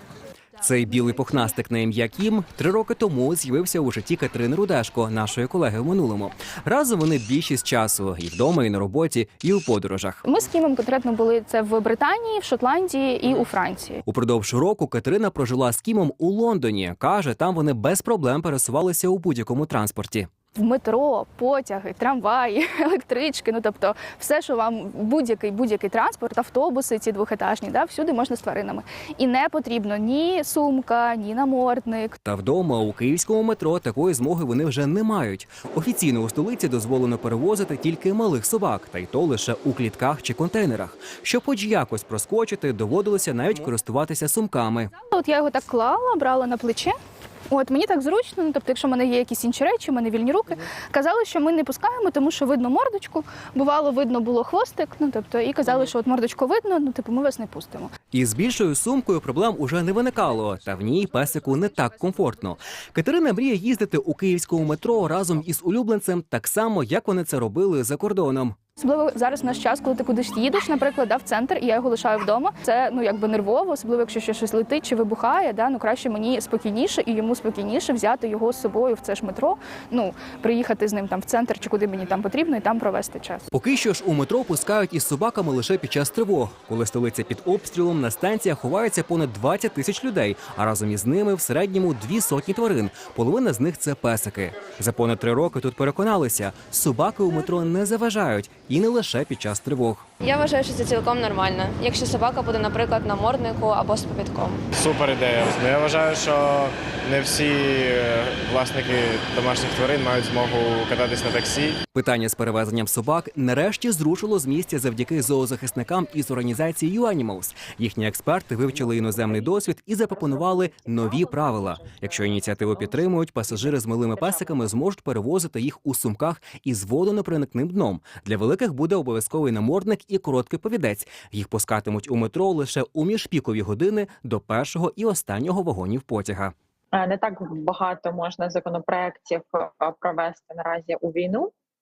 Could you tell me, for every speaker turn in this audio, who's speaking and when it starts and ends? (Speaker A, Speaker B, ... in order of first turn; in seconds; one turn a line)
Speaker A: 0.6-10.2
Speaker B: 10.2-14.0
Speaker A: 14.1-20.3
Speaker B: 20.6-32.1
Speaker A: 32.2-44.9
Speaker B: 45.0-47.0
Speaker B: 47.5-57.9
Speaker A: 58.1-68.6
Speaker B: 68.8-83.5
Speaker A: 83.5-100.0
Speaker C: 100.2-104.6
Speaker D: 104.8-111.8
Speaker A: 111.9-136.5
Speaker E: 118.7-124.7
Speaker E: 136.9-141.5